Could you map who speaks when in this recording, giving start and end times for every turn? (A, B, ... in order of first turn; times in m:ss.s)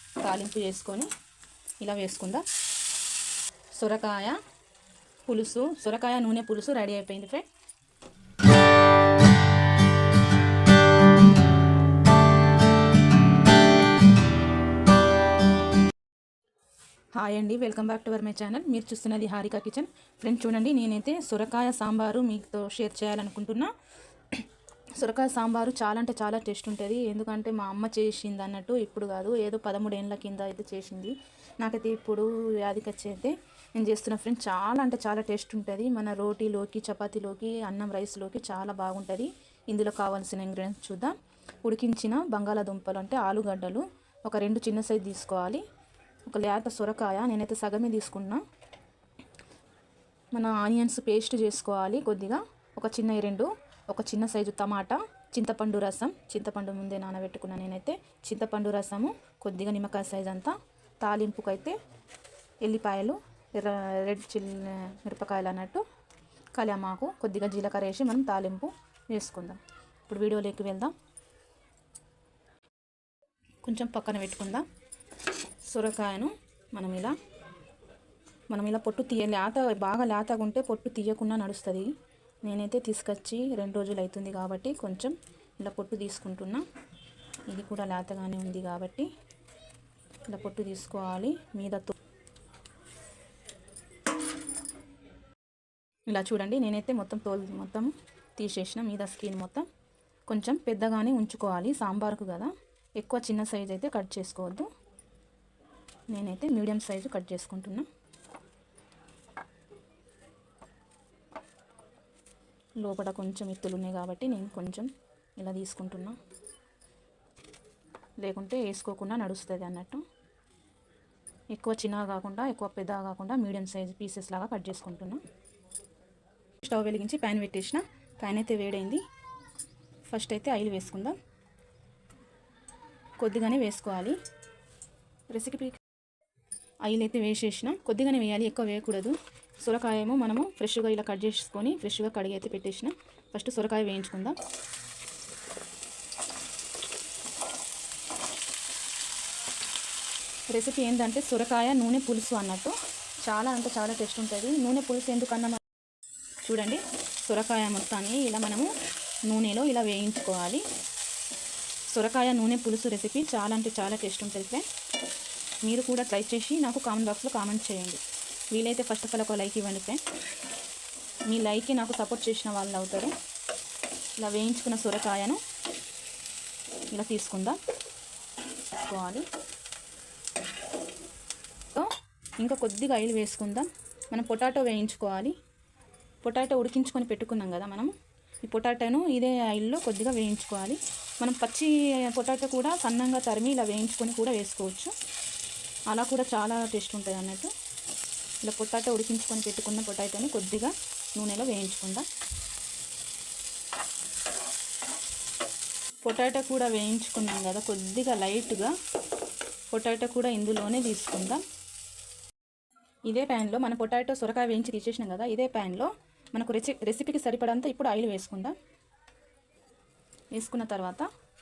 0:00.2-0:01.1 A
0:01.8-0:02.4 A
0:03.7-0:04.4 A
0:05.3-0:07.4 A
0:17.1-0:23.7 A
0:25.0-0:45.6 A
0:46.3-0:48.4 A
0:50.3-1:01.7 A
1:02.6-1:05.8 A
1:06.6-1:10.9 A
1:13.6-1:14.6 A
1:15.7-1:17.2 A
1:18.5-1:21.9 A
1:22.4-1:26.6 A
1:27.5-1:29.1 A
1:30.3-1:32.0 A
1:36.1-1:39.7 A
1:40.3-1:44.7 A
1:46.1-1:47.9 A
1:52.8-1:56.2 A
1:58.2-2:00.0 A
2:01.5-2:05.2 A
2:06.6-2:09.0 A
2:10.1-2:11.2 A
2:13.2-2:14.2 A
2:15.3-2:15.8 A
2:16.8-2:24.4 A
2:30.5-2:35.6 A
2:36.4-2:38.7 A
2:39.2-2:40.6 A
2:41.9-2:44.7 A
2:45.6-2:50.0 A
2:51.3-2:53.1 A
2:54.2-2:55.4 A
2:56.9-2:57.6 A
2:58.7-2:59.2 A
3:01.7-3:05.3 A
3:06.2-3:07.9 A
3:08.4-3:14.9 A
3:15.9-3:17.5 A
3:18.4-3:22.1 A
3:26.0-3:28.7 A
3:29.7-3:31.4 A
3:33.1-3:38.5 A
3:40.3-3:41.1 A